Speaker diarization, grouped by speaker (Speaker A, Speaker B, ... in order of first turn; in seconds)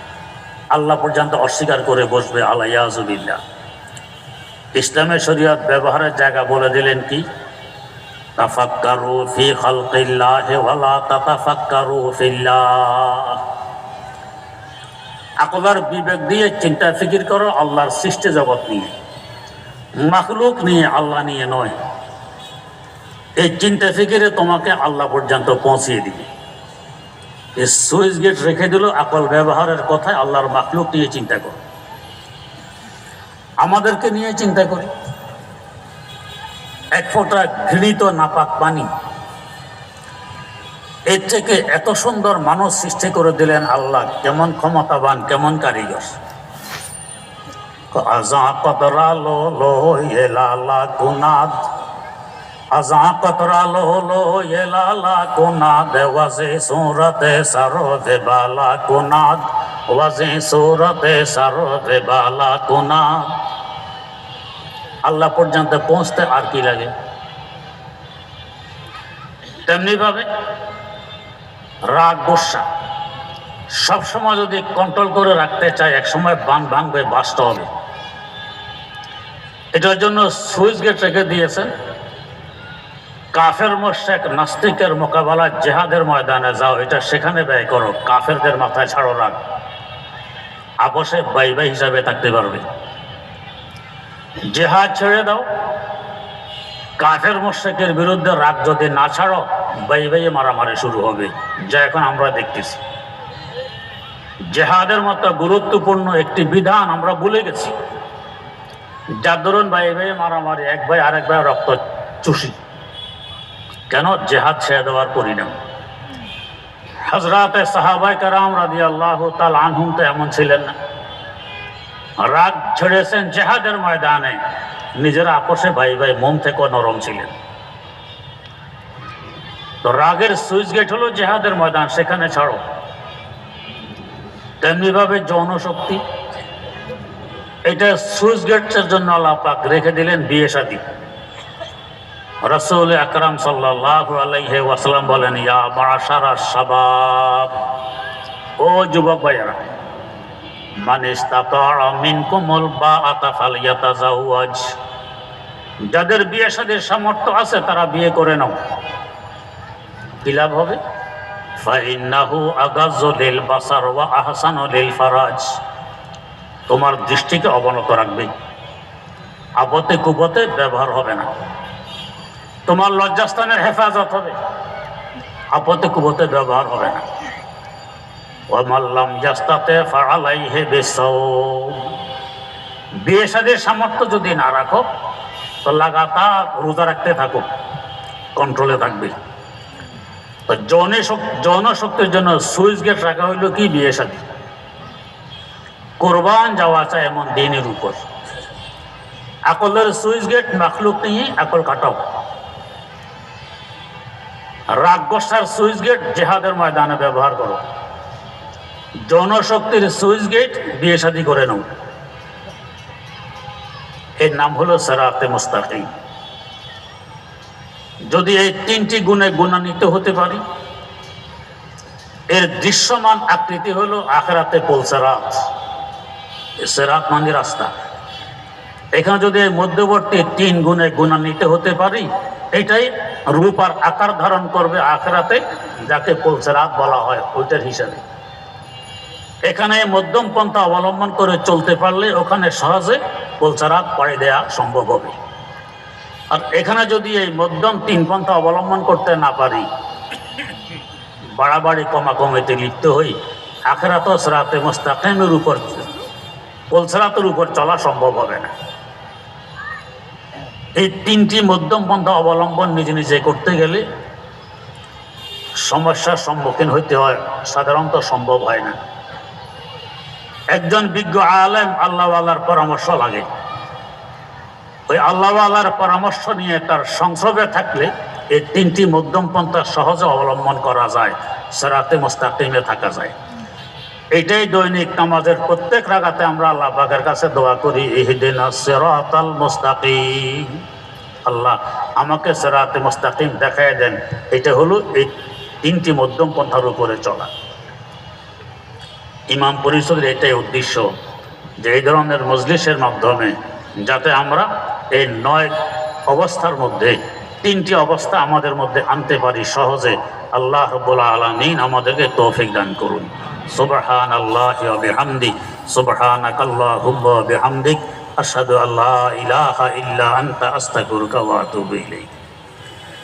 Speaker A: 0.7-3.4, 4.8-7.2, 8.4-13.4, 15.4-18.9, 20.0-21.8, 23.4-26.2, 27.6-31.6, 33.6-34.9, 36.9-38.9, 41.1-46.2, 47.9-51.6, 52.8-63.4, 65.1-66.9, 69.6-70.3, 71.9-72.6, 73.7-77.7, 79.7-81.7, 83.3-89.4, 90.8-92.6, 94.5-95.5, 97.0-102.8, 104.5-107.7, 109.2-112.6, 113.9-115.6, 117.1-120.7, 122.2-124.4, 125.0-127.3, 129.8-132.6, 134.6-136.0, 137.7-140.8, 142.4-147.6, 148.6-149.6, 150.8-154.7, 155.9-158.5, 160.2-160.8, 161.6-165.6, 166.7-168.3, 169.6-171.3, 172.7-174.4, 175.5-177.1, 178.5-181.9, 183.0-184.8, 185.6-187.4, 188.3-189.1, 190.5-194.2, 196.0-198.0, 199.5-202.0, 204.7-207.6, 209.1-211.7, 214.2-215.9, 218.1-220.4, 222.3-225.4, 226.6-227.7, 228.9-238.0, 239.4-245.2, 246.3-249.7, 251.4-253.2, 253.7-255.9, 256.7-258.5, 260.8-263.8, 265.6-268.8, 270.5-273.2, 274.9-283.1, 284.1-290.6, 291.3-295.1, 295.6-297.3, 299.3-300.9, 301.6-305.5, 306.1-322.1